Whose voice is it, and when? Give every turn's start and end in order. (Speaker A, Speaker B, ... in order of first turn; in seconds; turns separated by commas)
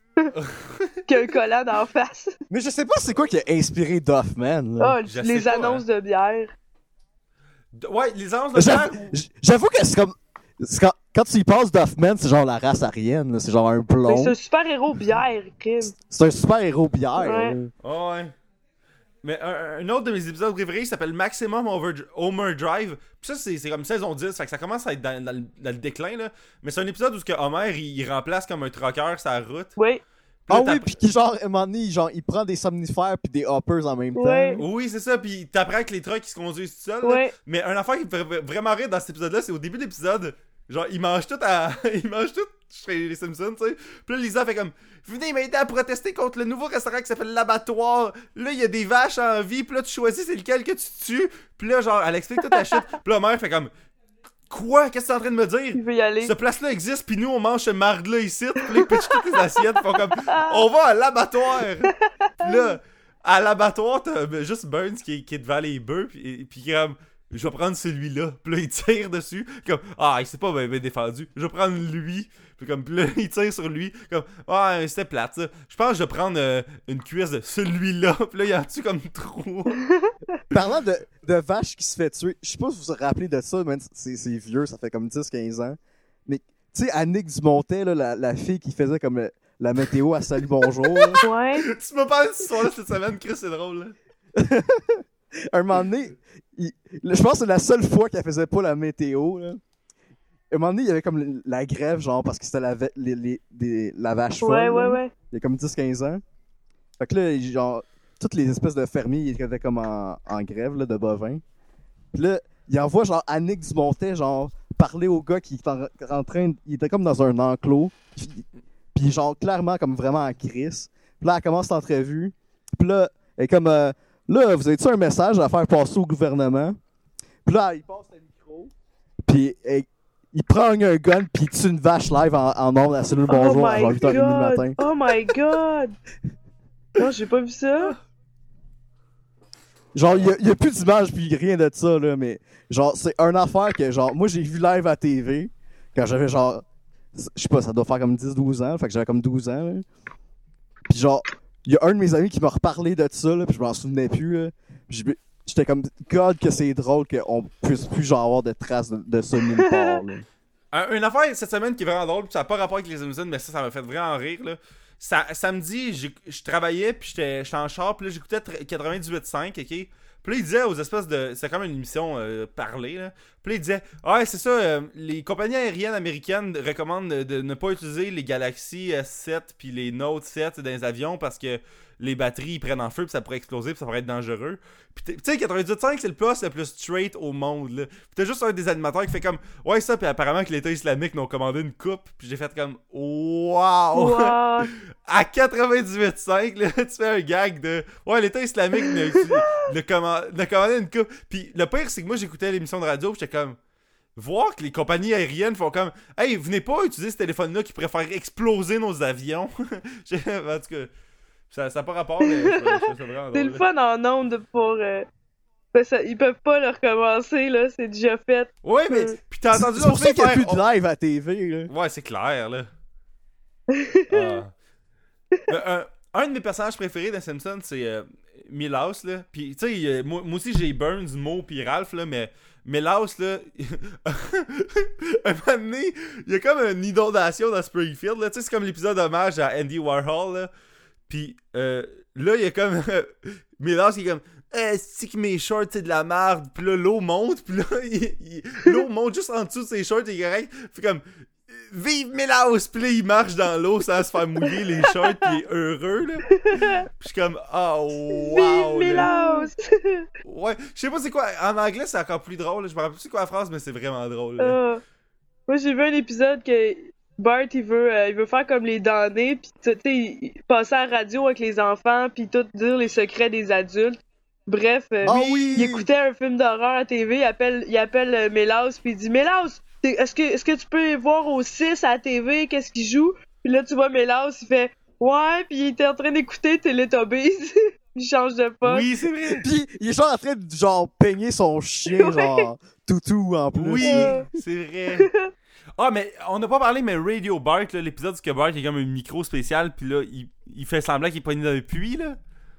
Speaker A: 0.3-1.1, Speaker B: 1.1-2.4, Speaker C: 2.5-5.0, Speaker B: 4.8-6.5, Speaker A: 5.1-5.8, Speaker A: 7.7-9.1, Speaker C: 8.6-14.4, Speaker B: 14.1-16.0, Speaker C: 16.0-17.7, Speaker B: 17.2-17.6, Speaker A: 17.8-18.3, Speaker A: 19.2-29.7, Speaker B: 29.8-30.0, Speaker A: 30.5-30.9, Speaker C: 30.5-34.6, Speaker B: 34.1-34.6, Speaker A: 34.6-53.7, Speaker B: 37.0-37.3, Speaker B: 52.5-52.8, Speaker A: 54.5-79.8, Speaker B: 55.8-56.3, Speaker B: 58.7-59.4, Speaker B: 60.1-60.7, Speaker B: 61.9-62.8, Speaker C: 80.5-91.2, Speaker A: 90.9-93.9, Speaker B: 91.2-91.7, Speaker C: 94.4-99.6, Speaker C: 100.5-106.2, Speaker B: 104.4-105.1, Speaker C: 107.0-111.4, Speaker C: 112.1-126.8, Speaker C: 127.5-128.7, Speaker C: 129.3-134.8, Speaker B: 133.3-135.9, Speaker B: 137.0-138.0, Speaker C: 139.9-146.6, Speaker C: 147.2-149.8, Speaker C: 150.9-160.3, Speaker B: 159.6-160.0, Speaker A: 160.7-203.6, Speaker B: 193.9-194.7, Speaker B: 198.9-199.4, Speaker A: 204.2-210.9, Speaker A: 211.5-213.6, Speaker B: 212.2-215.1, Speaker B: 215.7-219.2, Speaker A: 218.6-220.6, Speaker C: 219.5-221.7, Speaker A: 221.7-222.7, Speaker B: 223.7-224.4, Speaker A: 224.1-224.5, Speaker A: 225.5-240.5, Speaker A: 241.1-259.5, Speaker B: 256.3-256.9, Speaker B: 258.1-260.1, Speaker A: 260.2-264.6, Speaker B: 264.4-264.8, Speaker B: 265.5-288.9, Speaker C: 275.0-275.9, Speaker A: 275.1-275.6, Speaker A: 288.6-289.4, Speaker C: 289.4-294.2, Speaker B: 291.9-292.5, Speaker A: 293.6-295.1, Speaker B: 293.8-294.3, Speaker B: 295.0-295.3, Speaker A: 295.8-302.2